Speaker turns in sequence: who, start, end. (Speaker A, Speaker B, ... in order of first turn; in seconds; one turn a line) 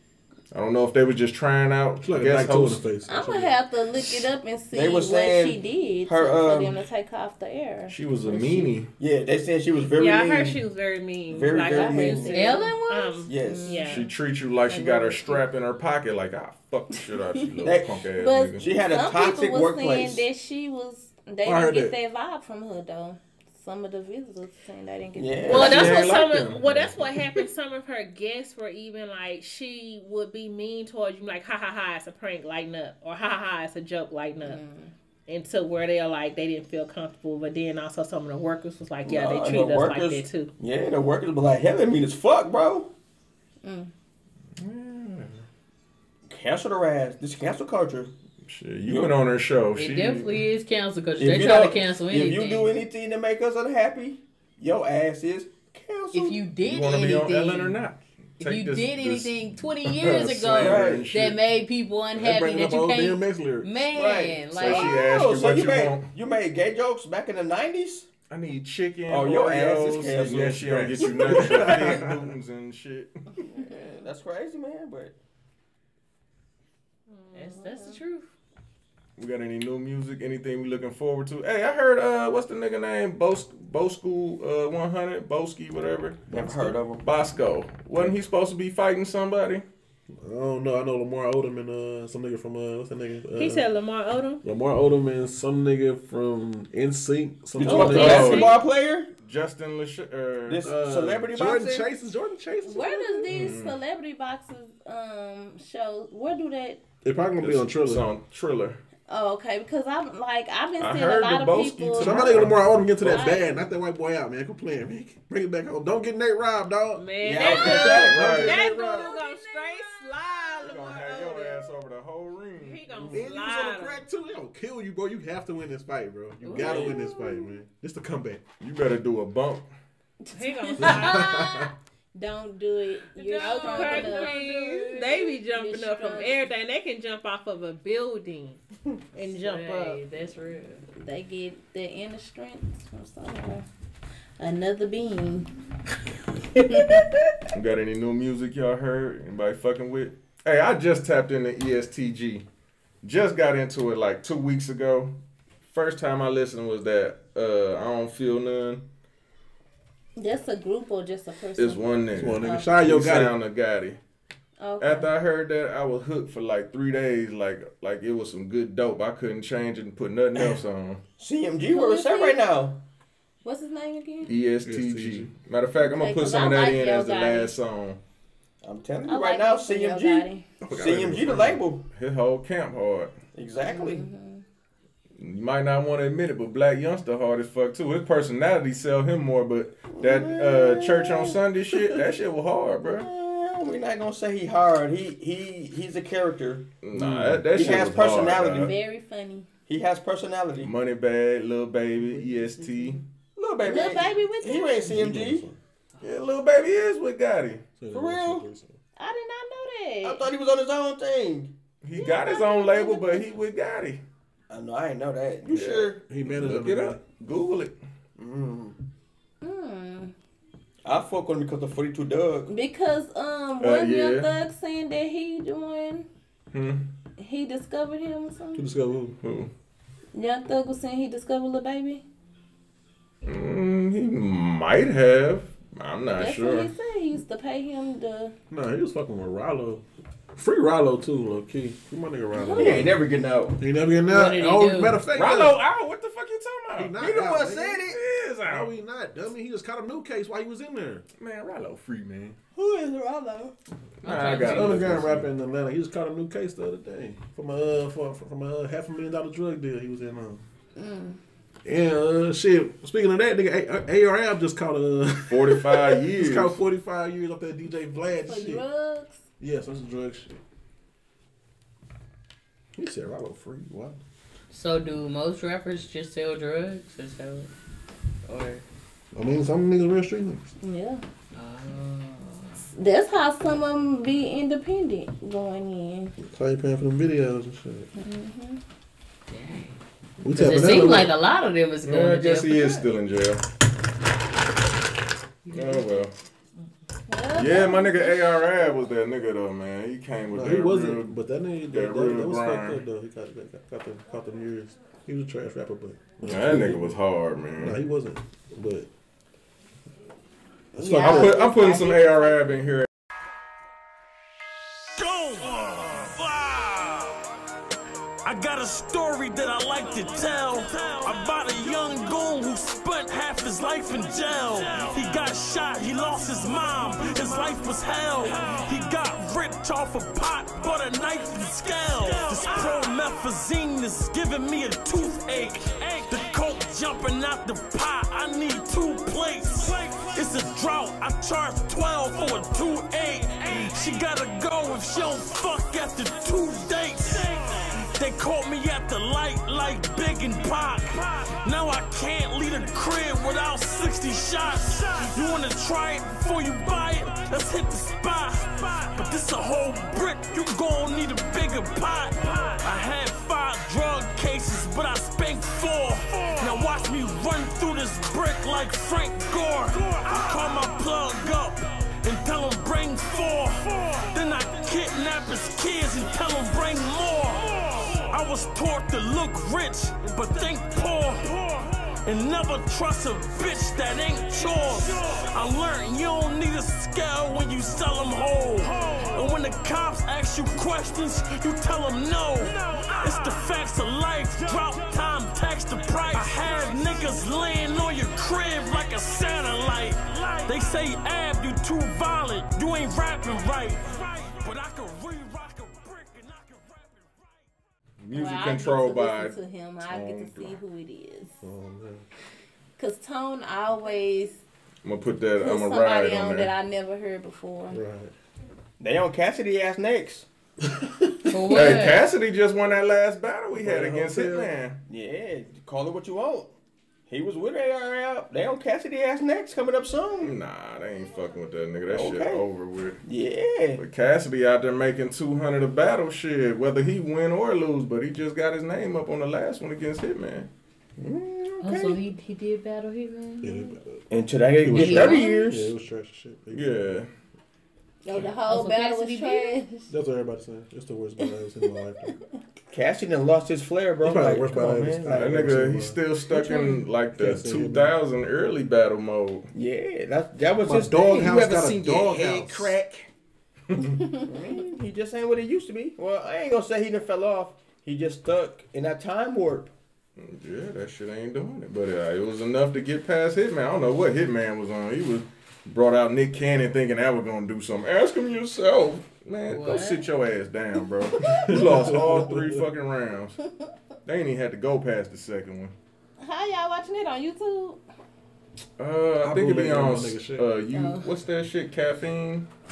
Speaker A: 0.5-2.9
Speaker B: 2.0-3.5
Speaker C: 3.1-8.7
Speaker D: 4.7-6.8
Speaker A: 7.9-8.9
Speaker D: 9.0-10.6
Speaker E: 10.0-14.1
Speaker D: 11.3-12.4
Speaker C: 11.6-15.4
Speaker F: 12.0-13.2
Speaker D: 13.2-13.8
Speaker A: 13.8-18.7
Speaker C: 17.5-26.2
Speaker D: 17.6-18.0
Speaker D: 18.6-20.3
Speaker B: 21.4-22.0
Speaker D: 25.1-26.1
Speaker E: 25.5-34.6
Speaker A: 25.5-27.0
Speaker C: 34.4-34.9
Speaker E: 35.3-40.5
Speaker D: 39.0-42.9
Speaker C: 43.6-43.9
Speaker A: 44.6-45.4
Speaker D: 46.3-48.1
Speaker A: 48.4-50.5
Speaker D: 48.9-49.1
Speaker F: 49.7-52.8
Speaker D: 51.2-56.5
Speaker F: 56.1-57.8
Speaker A: 56.6-61.4
Speaker F: 58.4-64.9
Speaker D: 60.5-61.1
Speaker B: 62.1-63.8
Speaker D: 63.9-68.1
Speaker A: 64.5-66.1
Speaker A: 68.3-73.2
Speaker D: 69.1-71.8
Speaker B: 70.2-72.3
Speaker D: 73.5-75.1
Speaker E: 77.1-77.6
Speaker F: 77.3-78.3
Speaker C: 77.5-78.0
Speaker A: 79.2-89.6
Speaker D: 86.3-87.0
Speaker B: 90.1-93.6
Speaker E: 93.3-94.4
Speaker B: 94.4-98.4
Speaker D: 97.6-99.1
Speaker E: 97.6-98.6
Speaker A: 97.7-98.6
Speaker A: 99.2-100.7
Speaker D: 100.5-101.9
Speaker B: 100.6-103.3
Speaker C: 102.6-106.8
Speaker A: 103.3-103.8
Speaker B: 107.0-108.0
Speaker A: 107.4-108.8
Speaker C: 109.1-112.5
Speaker A: 110.8-113.3
Speaker B: 112.0-119.1
Speaker C: 113.0-113.7
Speaker E: 116.9-121.7
Speaker D: 117.2-118.4
Speaker A: 117.5-118.7
Speaker C: 118.5-120.0
Speaker A: 120.6-123.1
Speaker E: 122.6-124.0
Speaker B: 123.1-128.4
Speaker F: 126.4-126.8
Speaker C: 126.6-127.5
Speaker D: 126.6-126.9
Speaker A: 128.6-129.7
Speaker C: 130.2-136.5
Speaker E: 130.3-131.5
Speaker B: 130.8-131.7
Speaker F: 133.2-135.1
Speaker E: 133.3-140.0
Speaker F: 139.3-140.8
Speaker C: 141.0-143.7
Speaker C: 144.4-145.5
Speaker C: 146.6-147.1
Speaker A: 147.5-152.4
Speaker A: 153.0-155.1
Speaker A: 155.7-158.8
Speaker C: 160.2-162.7
Speaker A: 161.6-164.0
Speaker B: 162.2-163.3
Speaker C: 164.6-165.1
Speaker A: 164.8-171.0
Speaker D: 171.2-172.8
Speaker C: 171.6-172.5
Speaker C: 173.4-174.4
Speaker A: 174.2-178.0
Speaker B: 174.6-175.3
Speaker C: 175.8-177.5
Speaker D: 178.6-181.8
Speaker C: 179.0-180.5
Speaker A: 180.6-183.1
Speaker B: 180.8-181.4
Speaker D: 183.3-184.1
Speaker C: 183.6-184.4
Speaker A: 185.2-193.1
Speaker D: 189.8-192.0
Speaker D: 192.9-198.7
Speaker A: 196.8-198.7
Speaker C: 198.6-199.5
Speaker D: 199.7-200.7
Speaker A: 200.6-203.0
Speaker B: 202.1-202.9
Speaker D: 203.3-205.4
Speaker C: 203.6-204.9
Speaker B: 204.8-205.6
Speaker A: 206.0-207.7
Speaker B: 207.8-208.8
Speaker D: 207.9-208.5
Speaker C: 209.0-210.2
Speaker D: 210.0-211.5
Speaker A: 211.8-214.0
Speaker C: 211.9-213.3
Speaker D: 214.5-216.0
Speaker A: 215.5-217.7
Speaker B: 216.1-217.0
Speaker D: 218.2-218.8
Speaker C: 219.4-220.1
Speaker D: 220.8-222.5
Speaker C: 222.5-226.1
Speaker A: 223.6-224.3
Speaker A: 226.5-226.8
Speaker C: 227.2-228.7
Speaker B: 228.6-229.2
Speaker A: 229.2-229.5
Speaker C: 230.1-232.0
Speaker A: 233.2-236.7
Speaker C: 236.1-238.3
Speaker B: 238.5-243.0
Speaker C: 242.3-242.8
Speaker D: 242.5-243.6
Speaker B: 243.6-245.6
Speaker F: 244.0-245.1
Speaker A: 245.1-247.0
Speaker B: 246.7-247.8
Speaker D: 247.0-248.0
Speaker A: 247.8-248.7
Speaker B: 248.4-251.0
Speaker A: 251.2-252.4
Speaker D: 252.5-253.5
Speaker A: 254.0-255.3
Speaker F: 254.0-254.7
Speaker B: 254.1-260.4
Speaker C: 260.8-261.2
Speaker B: 261.6-268.6
Speaker A: 265.3-266.6
Speaker C: 268.1-269.2
Speaker B: 269.4-270.4
Speaker B: 272.7-274.0
Speaker F: 274.5-277.5
Speaker F: 278.2-278.6
Speaker B: 279.1-280.5
Speaker C: 280.6-281.0
Speaker F: 281.3-282.6
Speaker C: 282.7-286.1
Speaker B: 286.2-287.9
Speaker C: 287.9-288.6
Speaker F: 289.3-289.8
Speaker B: 290.2-291.1
Speaker F: 290.3-292.9
Speaker A: 291.8-293.4
Speaker A: 295.5-296.1
Speaker F: 295.5-295.9
Speaker C: 297.1-298.8
Speaker A: 297.3-301.1
Speaker B: 300.3-307.0
Speaker A: 301.7-302.8
Speaker A: 306.2-307.8
Speaker B: 307.6-308.9
Speaker B: 310.7-311.6
Speaker C: 310.8-312.5
Speaker A: 311.0-312.9
Speaker G: 314.9-317.1
Speaker G: 318.2-407.4
Speaker A: 408.0-410.6
Speaker C: 408.1-411.4
Speaker B: 411.4-412.0
Speaker C: 412.8-414.4
Speaker A: 414.8-416.5
Speaker C: 415.4-417.8
Speaker B: 417.7-418.1
Speaker D: 418.8-420.2
Speaker B: 420.7-421.6
Speaker F: 421.3-422.1
Speaker A: 421.5-424.8
Speaker B: 423.6-424.6
Speaker D: 424.9-426.5
Speaker D: 427.1-430.3
Speaker A: 430.2-433.0
Speaker D: 431.9-432.4
Speaker D: 433.0-433.8
Speaker A: 433.8-440.5
Speaker D: 441.0-442.0
Speaker F: 441.6-443.7
Speaker B: 443.4-446.9
Speaker D: 444.1-445.7
Speaker F: 444.7-445.4
Speaker C: 445.0-445.3
Speaker A: 446.5-447.1
Speaker C: 448.0-449.9
Speaker F: 448.4-449.6
Speaker B: 449.9-452.2
Speaker D: 452.7-455.4
Speaker B: 454.0-456.0
Speaker A: 455.1-459.5
Speaker C: 456.3-456.8
Speaker B: 457.1-457.9
Speaker D: 459.5-462.7
Speaker B: 460.6-463.0
Speaker D: 463.8-469.7
Speaker C: 464.0-464.3
Speaker A: 470.2-483.4
Speaker F: 479.5-480.1
Speaker C: 481.1-481.4
Speaker B: 481.4-482.6
Speaker A: 484.1-485.7
Speaker C: 486.2-487.8
Speaker A: 488.8-492.5
Speaker B: 489.2-490.5
Speaker C: 490.7-491.1